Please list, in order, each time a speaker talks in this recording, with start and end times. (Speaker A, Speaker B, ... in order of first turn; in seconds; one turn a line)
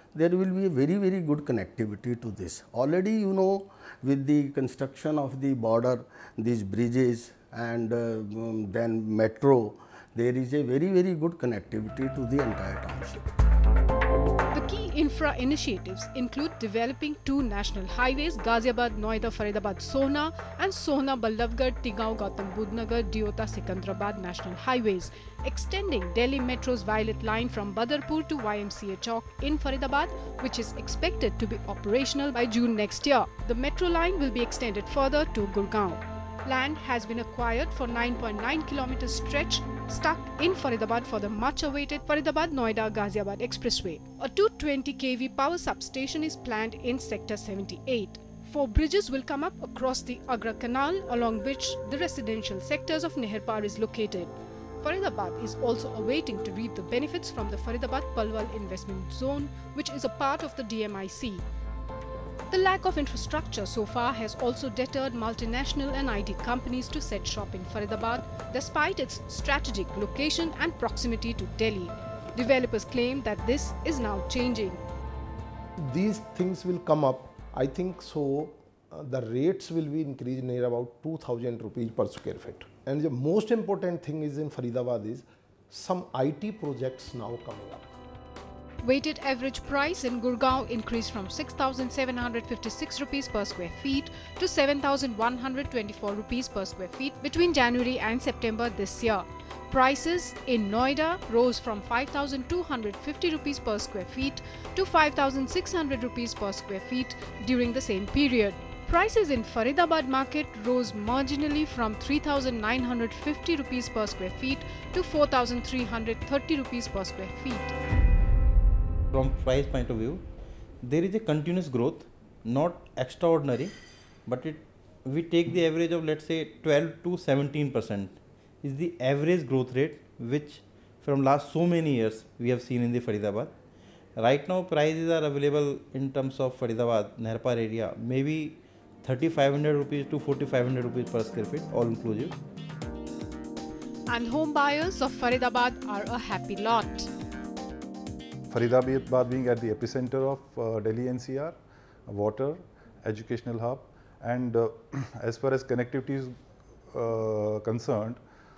Speaker A: 0.2-13.1
Speaker B: 14.5-61.4
Speaker B: 62.5-74.8
Speaker C: 75.8-87.9
Speaker B: 88.8-117.7
Speaker D: 119.1-120.2
Speaker D: 120.8-123.7
Speaker D: 124.2-133.5
Speaker D: 134.2-142.3
Speaker B: 144.1-147.1
Speaker E: 148.5-151.6
Speaker E: 152.1-156.3
Speaker E: 156.9-158.2